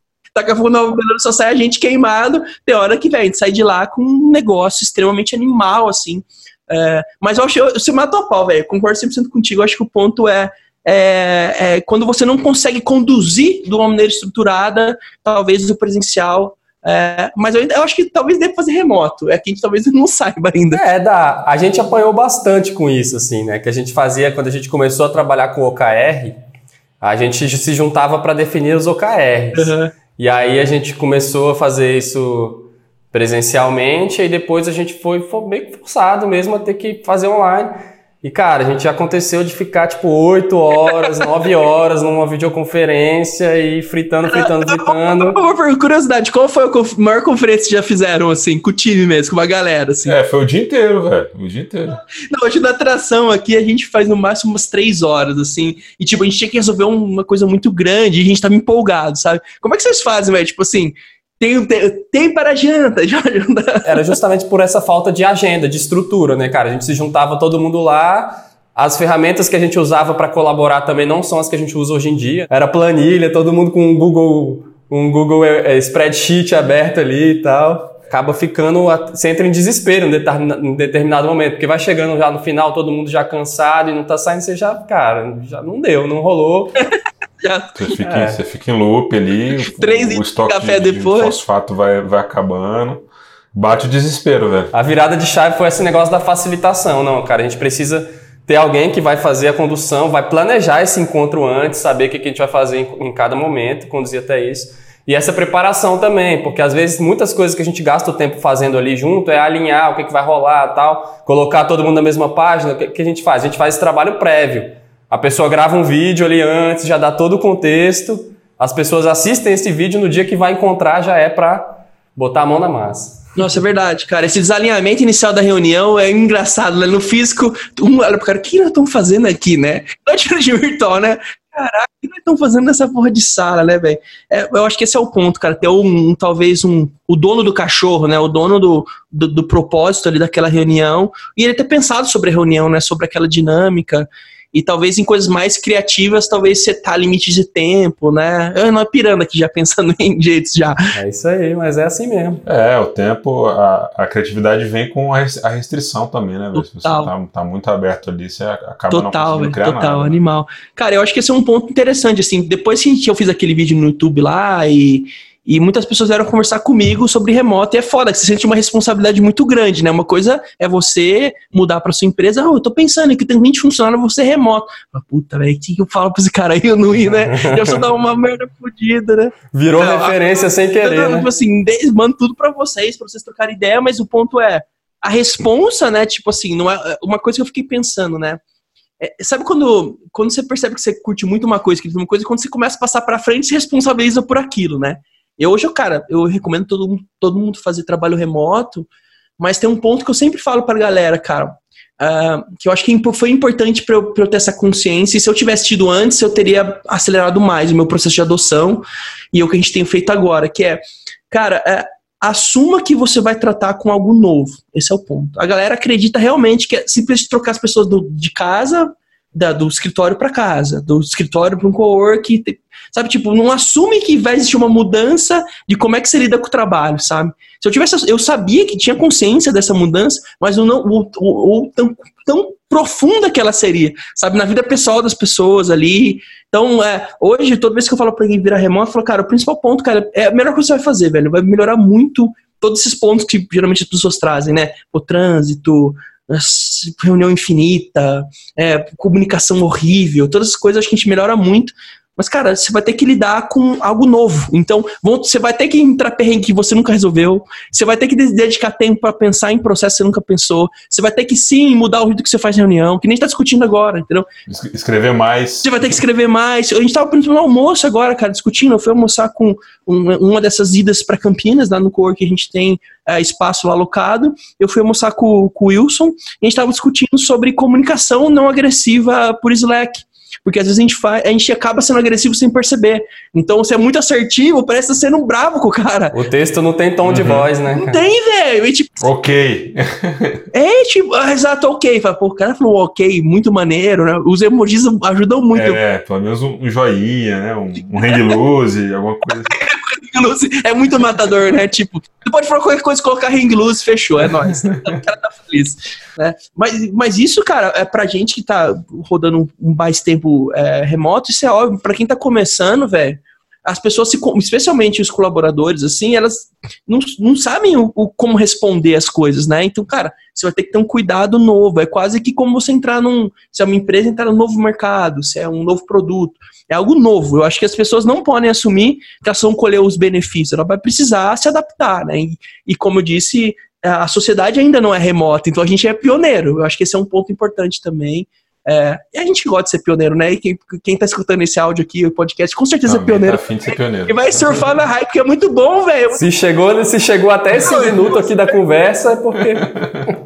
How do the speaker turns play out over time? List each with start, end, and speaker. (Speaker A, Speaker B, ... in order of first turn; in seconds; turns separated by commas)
Speaker A: 0.3-20.8, Speaker B: 20.7-26.4, Speaker B: 27.0-45.4, Speaker A: 29.5-29.9, Speaker A: 44.2-50.1, Speaker C: 50.1-52.0, Speaker A: 52.3-64.1, Speaker B: 63.9-86.8, Speaker A: 87.4-88.0, Speaker C: 87.8-94.7, Speaker B: 88.0-88.4, Speaker A: 89.7-91.4, Speaker B: 94.7-123.4, Speaker A: 123.4-150.9, Speaker B: 150.9-152.4, Speaker C: 152.4-160.2, Speaker A: 156.6-157.1, Speaker A: 158.9-188.4, Speaker B: 177.1-177.8, Speaker B: 179.5-181.3, Speaker A: 189.0-198.9, Speaker A: 199.4-264.3, Speaker C: 264.5-266.0, Speaker A: 265.6-286.2, Speaker B: 286.1-288.0, Speaker C: 287.1-287.5, Speaker A: 287.7-288.9, Speaker C: 289.0-290.4, Speaker A: 290.5-295.8, Speaker C: 295.5-299.6, Speaker A: 298.1-298.3, Speaker A: 299.5-346.2, Speaker C: 342.9-344.6, Speaker B: 346.1-349.7, Speaker A: 347.6-348.6, Speaker C: 349.6-350.1